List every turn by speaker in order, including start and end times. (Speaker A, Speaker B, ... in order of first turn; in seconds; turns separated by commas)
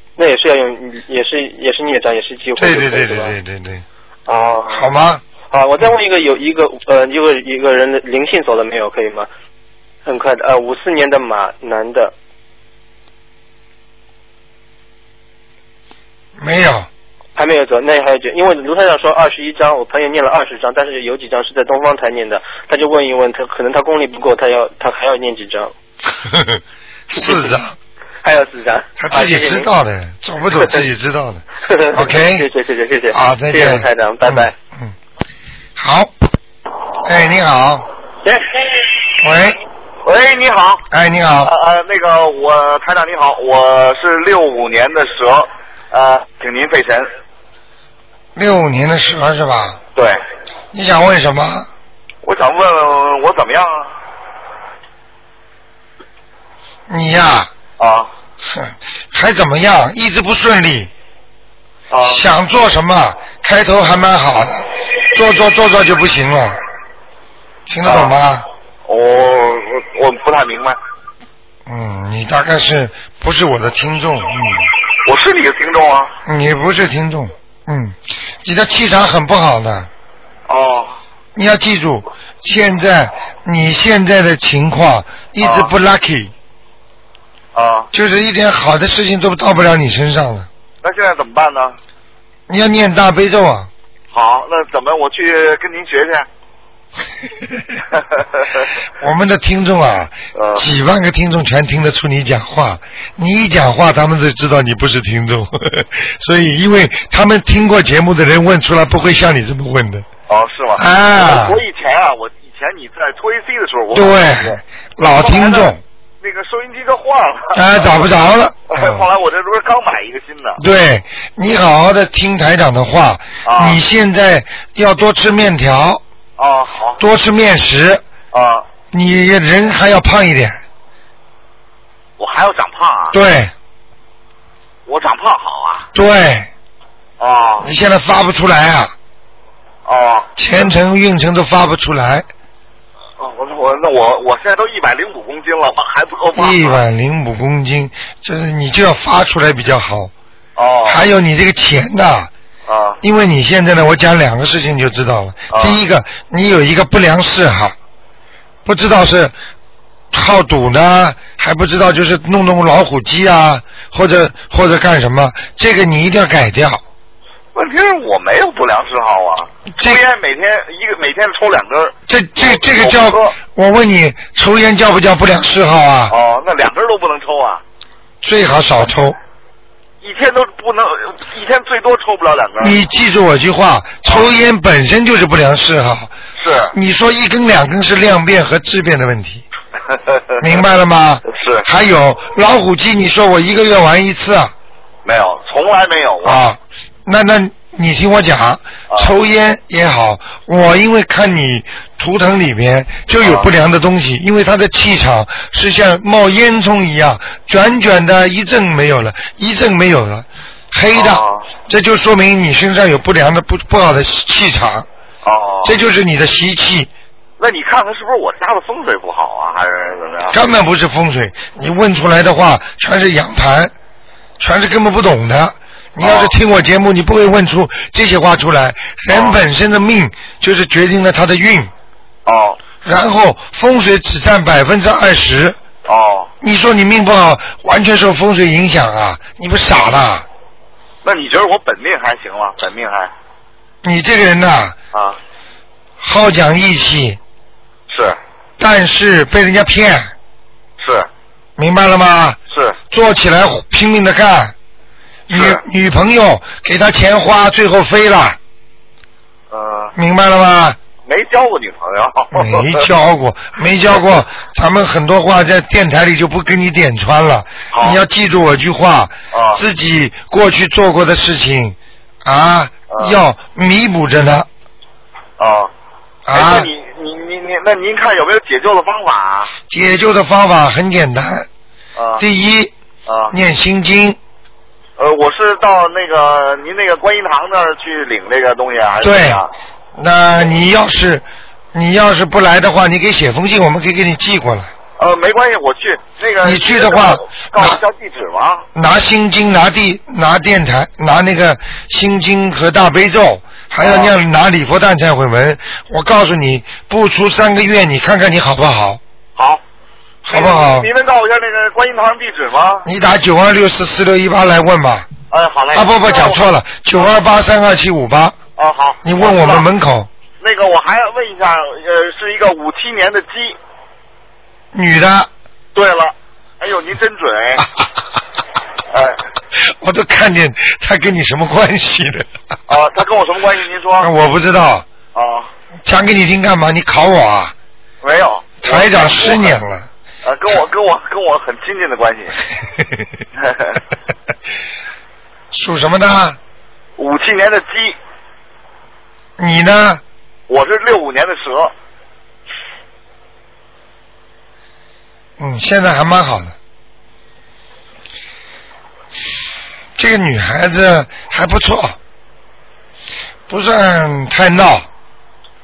Speaker A: 0.2-3.4, Speaker B: 2.6-3.9, Speaker A: 4.3-4.9, Speaker B: 4.7-5.2, Speaker A: 5.5-9.3, Speaker A: 10.1-12.1, Speaker B: 16.4-16.9, Speaker A: 17.4-25.7, Speaker B: 26.2-26.6, Speaker A: 27.1-27.6, Speaker B: 27.1-27.8, Speaker A: 28.2-29.7, Speaker B: 29.0-32.5, Speaker A: 31.6-34.5, Speaker B: 33.1-34.9, Speaker B: 35.8-36.1, Speaker B: 37.0-37.9, Speaker B: 39.2-39.6, Speaker C: 40.0-40.9, Speaker B: 40.9-41.5, Speaker C: 41.5-47.1, Speaker B: 48.4-49.8, Speaker B: 50.7-51.7, Speaker C: 52.2-53.9, Speaker B: 56.9-57.5, Speaker C: 57.8-58.1, Speaker B: 58.4-60.9, Speaker C: 61.9-62.2, Speaker B: 62.0-66.6, Speaker B: 67.7-68.5, Speaker C: 67.8-68.1, Speaker C: 68.9-70.8, Speaker B: 71.7-74.7, Speaker C: 75.1-76.1, Speaker B: 76.2-79.9, Speaker C: 80.5-81.0, Speaker B: 81.3-86.3, Speaker C: 85.4-85.7, Speaker C: 87.5-87.9, Speaker B: 87.9-90.5, Speaker C: 90.8-91.8, Speaker B: 92.5-93.7, Speaker C: 94.1-96.3, Speaker C: 98.2-98.6, Speaker B: 99.0-110.1, Speaker C: 100.3-100.7, Speaker C: 110.3-118.1, Speaker B: 110.8-111.6, Speaker B: 113.9-115.8, Speaker B: 117.5-119.0, Speaker C: 118.7-120.6, Speaker B: 120.6-126.0, Speaker C: 123.5-123.8, Speaker C: 126.4-127.0, Speaker B: 127.0-128.0, Speaker C: 128.3-128.7, Speaker B: 128.9-130.6, Speaker C: 132.2-133.2, Speaker B: 133.1-133.5, Speaker C: 134.9-135.9, Speaker B: 135.9-136.5, Speaker C: 137.2-137.7, Speaker B: 137.6-138.9, Speaker C: 139.8-140.7, Speaker B: 140.4-142.3, Speaker C: 143.2-146.8, Speaker B: 146.3-150.1, Speaker C: 150.6-151.0, Speaker B: 150.9-152.3, Speaker C: 152.7-153.0, Speaker B: 153.0-157.8, Speaker C: 155.5-155.8, Speaker B: 158.7-159.3, Speaker B: 160.1-166.8, Speaker C: 167.5-173.3, Speaker B: 169.7-170.0, Speaker B: 172.1-176.2, Speaker C: 176.1-177.6, Speaker B: 178.2-179.2, Speaker C: 180.0-182.8, Speaker B: 182.6-186.1, Speaker C: 186.4-186.7, Speaker B: 186.7-189.4, Speaker C: 189.9-190.6, Speaker B: 190.4-194.5, Speaker C: 191.2-191.7, Speaker C: 195.1-196.4, Speaker B: 196.2-214.9, Speaker C: 203.2-203.5, Speaker C: 210.9-211.5, Speaker C: 215.2-215.8, Speaker B: 215.7-216.9, Speaker C: 217.4-220.4, Speaker B: 220.3-223.7, Speaker B: 224.4-231.7, Speaker C: 226.0-226.3, Speaker C: 229.1-229.4, Speaker C: 232.3-232.6, Speaker B: 232.8-235.6, Speaker C: 235.9-236.3, Speaker B: 236.4-240.3, Speaker C: 241.0-243.1, Speaker B: 243.8-244.8, Speaker C: 244.9-245.2, Speaker B: 246.0-247.2, Speaker C: 247.9-248.2, Speaker B: 248.6-250.1, Speaker C: 250.8-251.1, Speaker B: 251.6-252.4, Speaker C: 252.5-252.8, Speaker B: 252.9-254.6, Speaker B: 255.3-258.4, Speaker C: 255.3-255.6, Speaker C: 259.5-259.9, Speaker B: 260.0-260.8, Speaker C: 261.0-262.9, Speaker B: 262.3-274.5, Speaker C: 267.7-268.0, Speaker C: 269.3-269.6, Speaker C: 272.9-273.2, Speaker C: 275.4-275.7, Speaker B: 276.3-276.7, Speaker C: 276.3-279.5, Speaker B: 279.7-281.5, Speaker C: 282.0-282.2, Speaker B: 282.2-282.7, Speaker C: 283.1-283.3, Speaker B: 283.3-284.2, Speaker C: 285.0-289.5, Speaker B: 289.0-289.4, Speaker B: 290.0-294.7, Speaker C: 295.0-298.7, Speaker B: 296.4-297.8, Speaker B: 298.8-309.0, Speaker C: 303.8-304.1, Speaker C: 309.4-309.6, Speaker B: 310.2-310.9, Speaker C: 310.3-312.9, Speaker B: 312.8-315.1, Speaker C: 315.3-316.4, Speaker B: 315.7-318.4, Speaker C: 318.6-319.7, Speaker B: 319.0-320.1, Speaker C: 320.4-323.6, Speaker B: 324.7-325.3, Speaker C: 325.8-327.7, Speaker C: 328.9-329.2, Speaker B: 329.6-332.3, Speaker C: 332.7-334.1, Speaker B: 334.0-334.9, Speaker C: 335.1-335.5, Speaker B: 335.9-337.5, Speaker C: 338.0-339.6, Speaker B: 338.6-339.9, Speaker C: 340.2-342.4, Speaker C: 343.4-343.8, Speaker B: 345.5-346.4, Speaker C: 347.0-348.0, Speaker B: 349.4-350.0, Speaker C: 350.5-351.7, Speaker B: 355.4-356.6, Speaker B: 360.0-362.0, Speaker B: 363.5-364.9